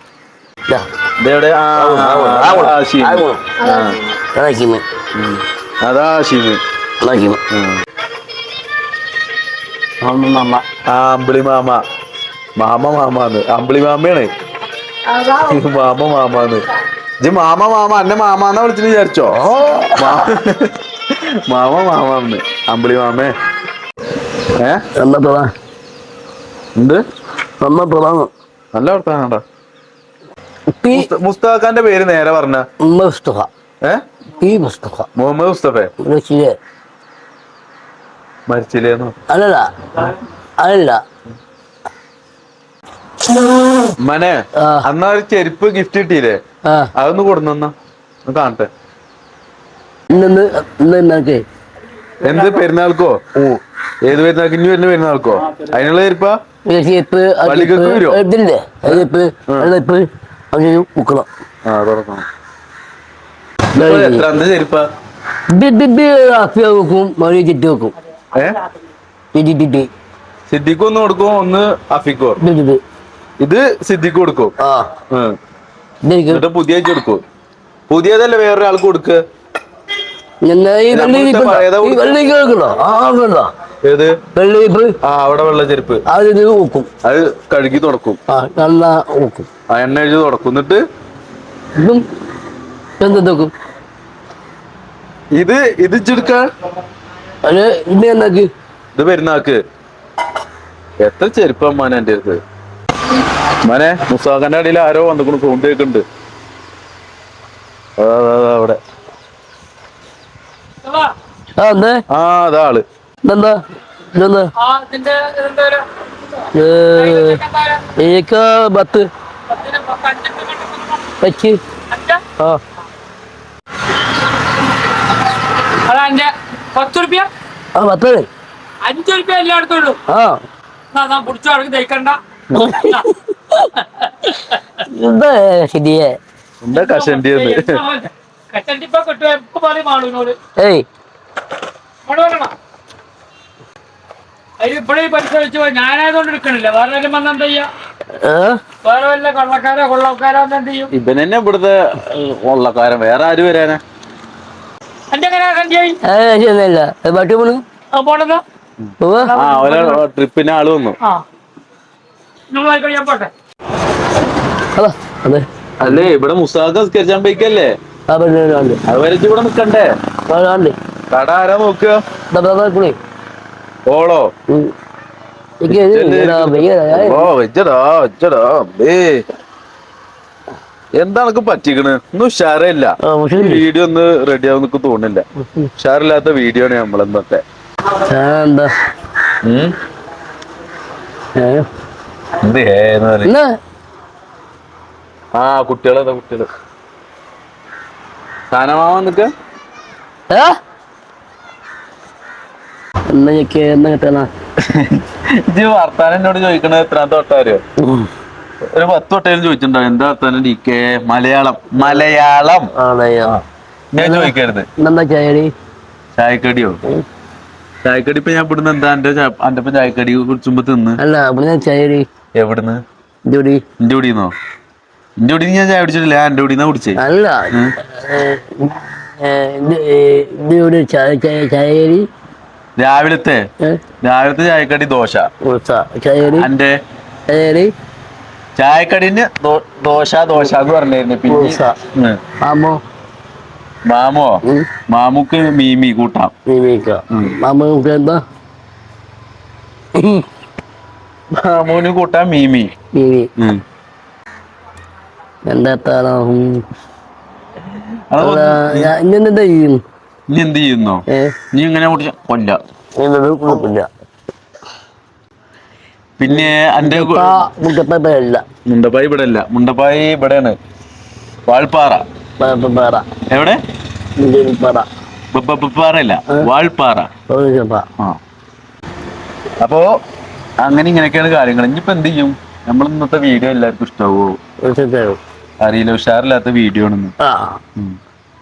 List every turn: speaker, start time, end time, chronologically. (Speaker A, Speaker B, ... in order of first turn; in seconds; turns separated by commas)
Speaker A: 1.2-4.0, Speaker B: 1.8-3.8, Speaker B: 4.3-4.8, Speaker A: 5.2-6.6, Speaker B: 7.0-7.4, Speaker A: 7.5-7.8, Speaker B: 10.0-10.6, Speaker A: 10.9-11.8, Speaker A: 12.6-14.3, Speaker A: 15.2-16.6, Speaker A: 17.2-19.4, Speaker B: 19.5-20.0, Speaker A: 20.0-23.3, Speaker A: 24.5-24.8, Speaker B: 25.0-25.5, Speaker A: 26.8-27.0, Speaker B: 27.6-28.3, Speaker A: 28.7-29.4, Speaker B: 30.7-31.1, Speaker A: 30.9-32.6, Speaker B: 32.8-33.5, Speaker B: 34.4-35.1, Speaker A: 35.1-35.9, Speaker B: 36.0-36.5, Speaker A: 38.5-39.1, Speaker B: 39.3-41.0, Speaker A: 44.0-46.4, Speaker B: 44.6-44.9, Speaker A: 47.0-47.7, Speaker A: 48.2-48.7, Speaker B: 50.1-51.4, Speaker A: 52.2-56.3, Speaker B: 56.6-61.3, Speaker A: 57.4-58.2, Speaker A: 58.9-59.7, Speaker A: 61.6-62.2, Speaker B: 63.7-64.3, Speaker A: 63.8-64.9, Speaker B: 65.5-67.9, Speaker A: 68.3-68.6, Speaker B: 69.3-69.9, Speaker A: 70.5-72.4, Speaker B: 72.4-72.8, Speaker A: 73.4-74.5, Speaker B: 74.6-74.9, Speaker A: 75.1-75.3, Speaker B: 76.0-76.4, Speaker A: 76.3-77.2, Speaker A: 77.9-79.2, Speaker B: 80.4-83.5, Speaker A: 80.9-82.3, Speaker A: 83.8-84.2, Speaker B: 84.3-84.9, Speaker A: 85.0-86.0, Speaker B: 86.1-86.9, Speaker A: 87.0-88.2, Speaker B: 88.3-89.5, Speaker A: 89.7-90.8, Speaker B: 91.8-92.0, Speaker B: 93.0-93.5, Speaker A: 95.3-96.5, Speaker B: 97.4-98.5, Speaker A: 99.0-99.6, Speaker A: 101.0-102.4, Speaker A: 103.7-106.0, Speaker A: 108.0-108.8, Speaker C: 110.8-111.1, Speaker B: 111.6-112.0, Speaker A: 112.1-112.8, Speaker B: 113.2-113.5, Speaker B: 114.1-114.5, Speaker C: 114.6-115.9, Speaker B: 116.5-117.4, Speaker C: 116.9-117.8, Speaker B: 118.0-119.1, Speaker C: 119.5-121.1, Speaker B: 121.2-121.6, Speaker C: 121.9-122.2, Speaker C: 125.7-127.3, Speaker B: 127.7-128.3, Speaker C: 128.8-130.0, Speaker B: 130.1-130.4, Speaker C: 130.9-132.2, Speaker B: 132.5-134.2, Speaker C: 132.8-133.1, Speaker B: 134.8-136.2, Speaker A: 136.6-137.8, Speaker C: 136.7-140.4, Speaker B: 140.6-140.8, Speaker C: 142.1-142.5, Speaker C: 144.6-147.7, Speaker B: 148.2-148.6, Speaker C: 148.8-150.9, Speaker A: 150.9-153.8, Speaker C: 155.1-156.0, Speaker B: 156.0-157.6, Speaker C: 157.9-158.4, Speaker B: 159.0-159.3, Speaker C: 159.2-160.0, Speaker A: 159.3-161.0, Speaker C: 162.5-163.3, Speaker B: 164.7-165.4, Speaker A: 165.8-167.7, Speaker B: 168.1-168.8, Speaker A: 168.9-169.9, Speaker B: 170.3-170.8, Speaker A: 171.1-172.0, Speaker B: 172.3-173.0, Speaker A: 173.9-174.3, Speaker B: 175.6-177.3, Speaker A: 175.7-179.2, Speaker A: 181.0-185.2, Speaker B: 183.0-183.6, Speaker B: 185.4-185.7, Speaker A: 185.8-187.4, Speaker B: 187.9-188.7, Speaker A: 189.4-189.7, Speaker B: 191.3-191.6, Speaker A: 192.4-193.3, Speaker A: 195.3-196.5, Speaker A: 198.5-199.3, Speaker B: 200.3-200.6, Speaker B: 203.1-204.3, Speaker A: 204.6-207.6, Speaker B: 207.8-208.1, Speaker A: 208.7-212.7, Speaker B: 212.7-213.4, Speaker A: 213.9-214.7, Speaker B: 214.0-215.5, Speaker A: 216.2-216.8, Speaker A: 217.8-221.0, Speaker B: 221.0-222.1, Speaker A: 222.3-222.8, Speaker B: 223.3-223.6, Speaker A: 223.8-224.3, Speaker A: 225.2-227.0, Speaker B: 226.9-232.1, Speaker A: 232.8-233.4, Speaker A: 234.0-235.3, Speaker B: 235.4-236.5, Speaker A: 236.4-236.8, Speaker B: 237.3-237.7, Speaker A: 238.6-242.2, Speaker B: 241.3-241.8, Speaker B: 242.4-242.8, Speaker A: 243.9-246.3, Speaker B: 246.5-248.2, Speaker B: 249.9-250.2, Speaker A: 251.3-252.7, Speaker B: 252.9-253.3, Speaker B: 255.5-256.6, Speaker A: 258.1-258.9, Speaker B: 258.2-259.8, Speaker A: 260.3-262.6, Speaker B: 261.1-261.3, Speaker B: 263.0-263.9, Speaker A: 266.2-267.5, Speaker B: 266.3-268.4, Speaker A: 268.6-270.6, Speaker A: 271.5-272.0, Speaker B: 272.4-273.0, Speaker A: 273.3-273.6, Speaker B: 274.2-274.9, Speaker A: 275.3-277.1, Speaker B: 277.3-277.9, Speaker A: 279.6-279.9, Speaker A: 280.6-284.4, Speaker B: 284.6-285.2, Speaker A: 285.6-287.1, Speaker B: 287.2-287.6